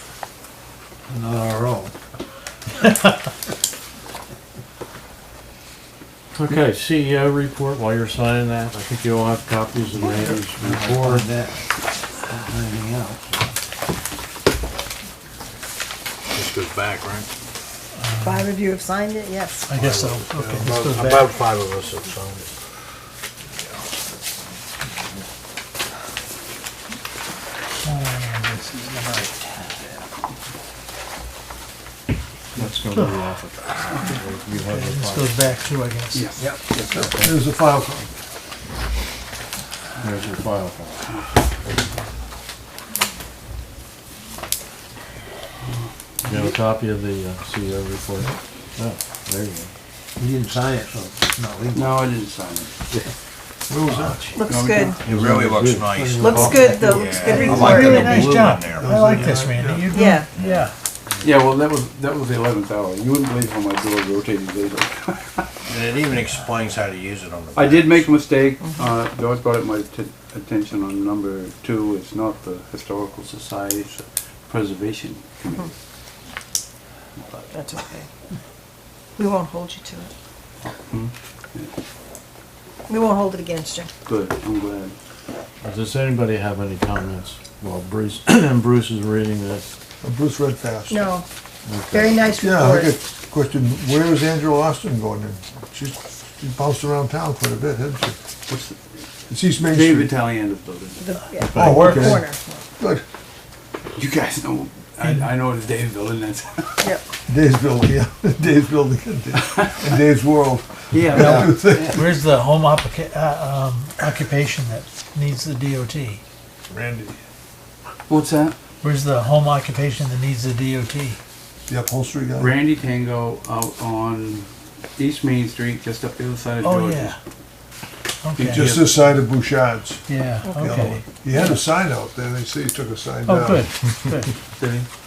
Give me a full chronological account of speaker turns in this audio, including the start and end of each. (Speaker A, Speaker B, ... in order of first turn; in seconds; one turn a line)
Speaker A: 1.1-1.9
Speaker B: 6.3-11.3
Speaker A: 10.6-11.6
Speaker A: 12.3-13.5
Speaker C: 16.3-17.3
Speaker D: 18.0-18.3
Speaker E: 18.2-19.7
Speaker D: 19.7-21.2
Speaker C: 19.8-22.5
Speaker C: 23.6-23.8
Speaker D: 27.8-29.3
Speaker B: 32.5-35.3
Speaker D: 34.6-36.3
Speaker F: 36.1-36.9
Speaker G: 36.9-38.2
Speaker B: 40.0-41.1
Speaker F: 45.7-46.5
Speaker B: 46.2-49.7
Speaker A: 50.2-52.0
Speaker F: 51.7-52.7
Speaker G: 53.7-54.2
Speaker B: 53.9-56.6
Speaker E: 54.4-55.0
Speaker F: 54.4-55.0
Speaker C: 55.0-58.9
Speaker A: 55.9-57.6
Speaker E: 56.2-58.2
Speaker D: 57.3-60.7
Speaker G: 58.7-60.2
Speaker E: 59.9-60.3
Speaker F: 61.2-65.5
Speaker C: 65.6-68.1
Speaker F: 67.5-75.7
Speaker E: 68.6-68.9
Speaker F: 77.2-77.5
Speaker E: 77.5-78.1
Speaker E: 79.2-80.1
Speaker F: 80.9-81.7
Speaker E: 82.9-83.9
Speaker F: 84.1-84.9
Speaker B: 85.6-89.7
Speaker G: 90.0-91.1
Speaker E: 90.9-91.2
Speaker B: 91.7-92.3
Speaker E: 91.9-93.0
Speaker G: 92.4-98.2
Speaker F: 98.5-98.8
Speaker G: 99.3-100.2
Speaker F: 99.5-101.6
Speaker E: 101.0-102.6
Speaker G: 101.5-102.3
Speaker F: 103.9-106.8
Speaker G: 107.3-112.0
Speaker F: 110.9-112.0
Speaker D: 111.2-116.2
Speaker G: 116.7-117.2
Speaker F: 118.1-118.5
Speaker D: 118.8-121.2
Speaker G: 121.7-122.6
Speaker F: 122.4-127.2
Speaker D: 126.6-127.2
Speaker D: 128.2-128.6
Speaker G: 128.4-130.1
Speaker F: 128.4-128.9
Speaker D: 130.1-131.0
Speaker E: 130.4-131.0
Speaker G: 130.6-133.7
Speaker D: 133.2-134.3
Speaker F: 134.6-134.9